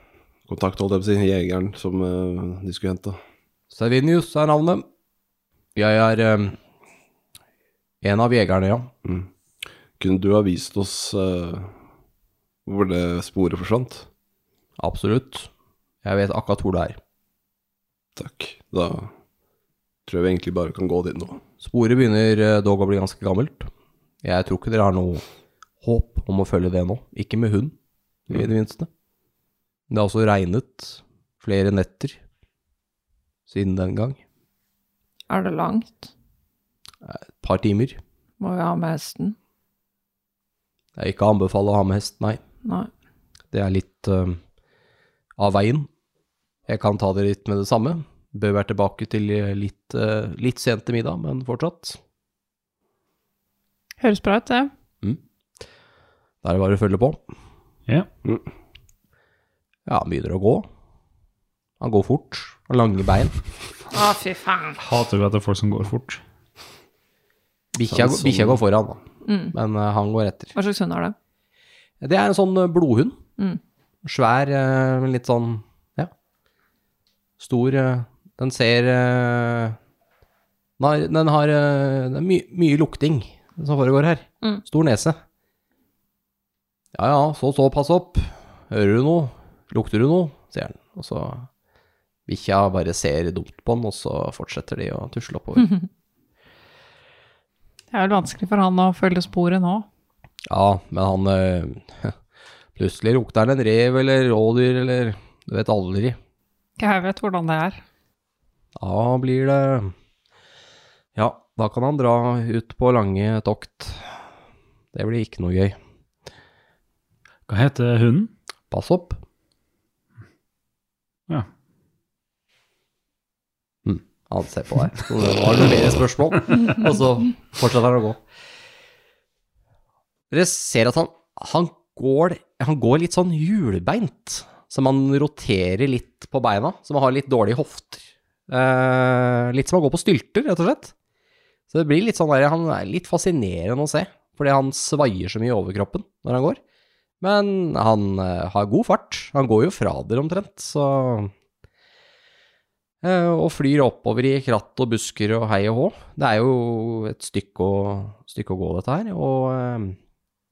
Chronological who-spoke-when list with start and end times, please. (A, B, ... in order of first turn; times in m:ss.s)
0:00.5-0:03.2 A
0:03.7-0:04.8 B
0:05.8-0:06.6 B
0:08.0-0:08.9 B
0:09.0-0:09.3 A
0:10.0-0:11.7 A
0:12.6-0:14.1 A
0:14.8-0:15.5 B
0:16.0-0:17.0 B
0:18.2-0:19.1 A
0:20.0-0:21.4 A
0:21.6-0:23.7 B
0:24.2-0:25.2 B
0:25.8-0:27.7 B
0:28.3-0:28.9 B
0:29.9-0:32.2 B
0:33.5-0:34.2 B
0:35.3-0:36.1 C
0:37.0-0:38.0 B
0:38.4-0:39.4 C
0:41.0-0:42.4 B
0:42.6-0:42.9 C
0:43.5-0:44.4 B
0:45.4-0:45.9 B
0:46.7-0:52.0 B
0:54.0-0:54.7 D
0:56.4-0:57.2 B
0:59.9-1:00.7 B
1:01.8-1:03.3 B
1:03.9-1:04.8 C
1:04.8-1:06.2 E
1:07.7-1:09.0 B
1:07.9-1:08.6 A
1:09.2-1:09.5 C
1:09.5-1:10.5 B
1:10.5-1:11.1 C
1:12.0-1:13.2 B
1:14.0-1:16.1 B
1:17.4-1:19.8 B
1:20.8-1:25.2 B
1:26.9-1:31.5 B
1:32.3-1:35.7 B
1:37.9-1:39.8 D
1:40.5-1:42.1 B
1:42.8-1:46.2 B
1:46.8-1:47.8 D
1:48.8-1:49.9 B
1:51.1-1:54.1 B
1:54.9-1:55.8 B
1:57.5-1:58.3 E
1:58.7-1:59.2 B
2:03.8-2:08.2 B
2:10.3-2:20.9 B
2:21.7-2:26.6 B
2:27.2-2:31.3 B
2:33.0-2:40.0 B